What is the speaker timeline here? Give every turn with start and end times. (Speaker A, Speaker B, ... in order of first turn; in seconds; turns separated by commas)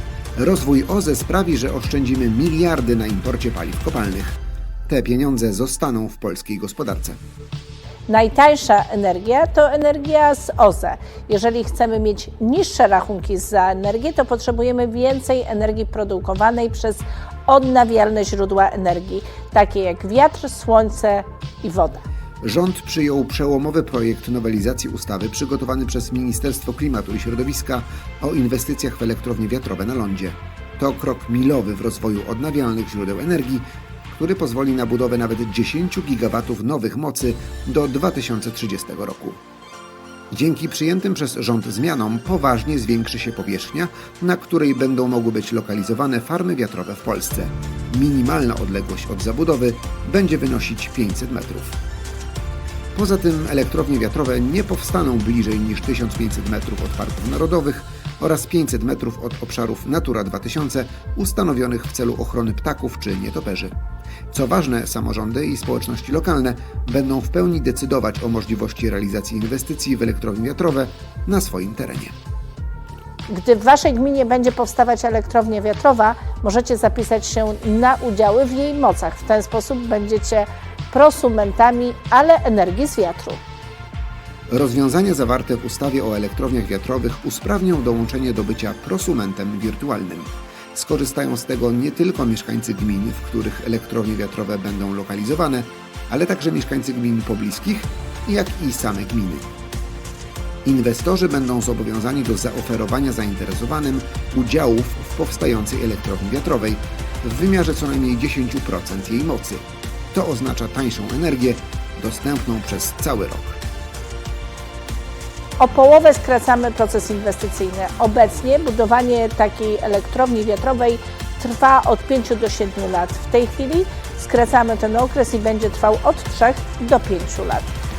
Speaker A: 0.3-7.2, Speaker B: 8.1-22.0, Speaker A: 22.4-39.4, Speaker A: 40.3-51.8, Speaker A: 53.0-63.7, Speaker A: 64.3-72.1, Speaker B: 73.3-83.4, Speaker A: 84.5-99.5, Speaker A: 100.6-113.6, Speaker B: 115.6-127.7